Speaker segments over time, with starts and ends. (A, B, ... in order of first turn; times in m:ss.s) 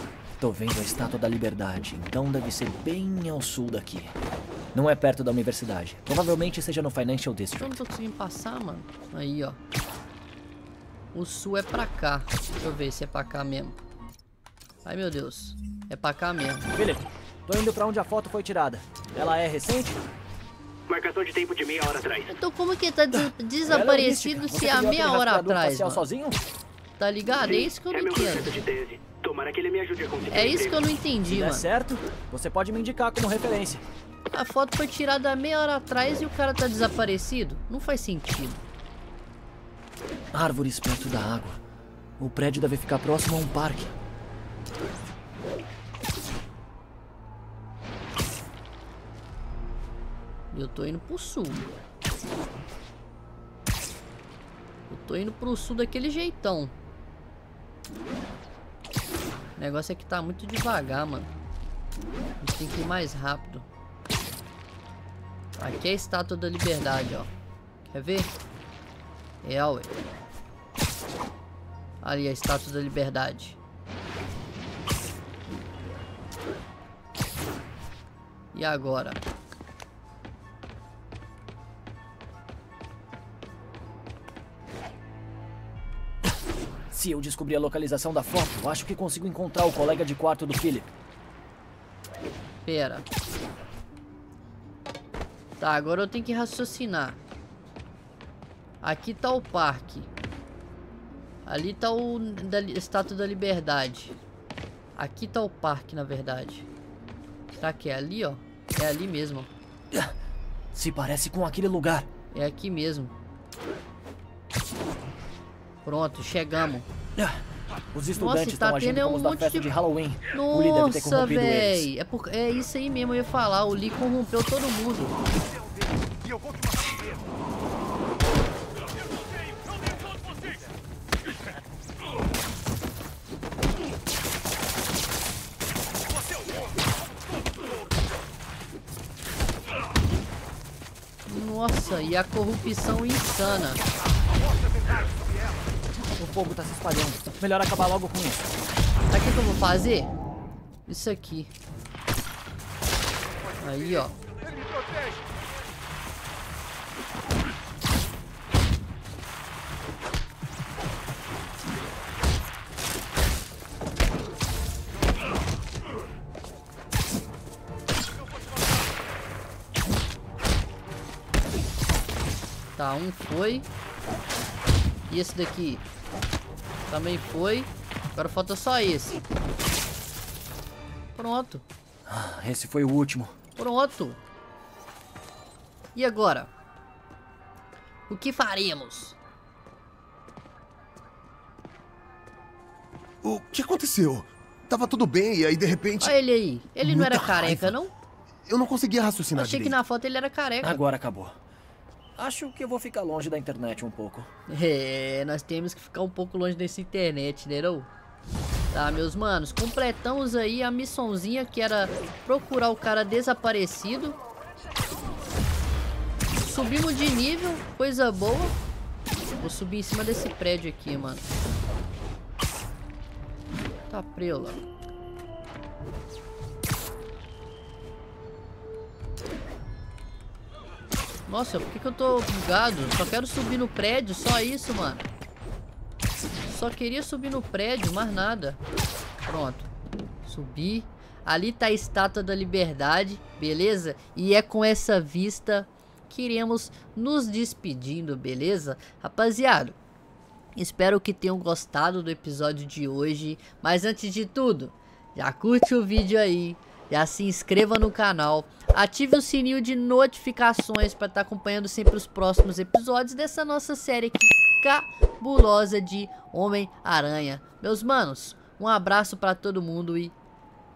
0:00.4-0:04.1 A
0:04.7-0:07.8 A
0:07.6-0:09.6 B
0:11.1-0:13.8 B
0:14.8-0:16.7 B
0:16.7-0:20.0 A
0:20.9-0:21.8 C
0:22.3-0:26.0 B
0:23.1-0:26.4 A
0:27.0-0:28.5 B
0:27.5-0:30.8 C
0:30.3-0:31.7 B
0:31.3-0:33.8 A
0:34.3-0:38.6 B
0:40.3-0:41.6 A
0:42.2-0:43.9 A
0:50.5-0:51.6 B
0:54.9-0:56.7 B
0:59.6-1:01.3 B
1:02.4-1:03.6 B
1:05.6-1:07.3 B
1:07.9-1:08.3 B
1:09.4-1:09.9 B
1:12.0-1:13.6 B
1:18.5-1:19.2 B
1:26.9-1:30.9 A
1:32.6-1:33.0 B
1:35.6-1:37.2 B
1:38.8-1:40.1 B
1:41.4-1:44.1 B
1:45.0-1:46.6 B
1:47.6-1:49.5 B
1:50.7-1:52.1 A
1:52.3-1:53.1 B
1:55.8-1:56.8 B
1:57.9-2:01.9 A
1:58.2-1:59.7 B
2:00.3-2:05.2 B
2:21.2-2:23.8 B
2:26.2-2:28.4 A
2:29.1-2:30.1 B
2:30.9-2:31.5 B
2:33.6-2:34.2 B
2:52.8-2:53.6 B
2:55.1-2:55.8 B
2:56.9-2:59.2 B
3:01.2-3:01.6 B
3:02.1-3:03.3 A
3:03.6-3:04.2 B
3:06.0-3:06.5 B
3:08.1-3:09.2 B
3:13.2-3:16.1 D
3:16.0-3:17.9 B
3:16.8-3:17.6 D
3:18.5-3:19.7 D
3:19.3-3:20.8 B
3:20.6-3:21.4 A
3:22.2-3:24.3 A
3:24.5-3:27.9 B
3:28.7-3:34.2 B
3:36.4-3:38.6 B
3:39.4-3:41.2 B
3:43.9-3:44.6 B
3:51.3-3:55.0 B
3:56.4-3:58.6 B
3:59.3-3:59.7 B
4:00.2-4:09.8 B
4:10.6-4:30.1 B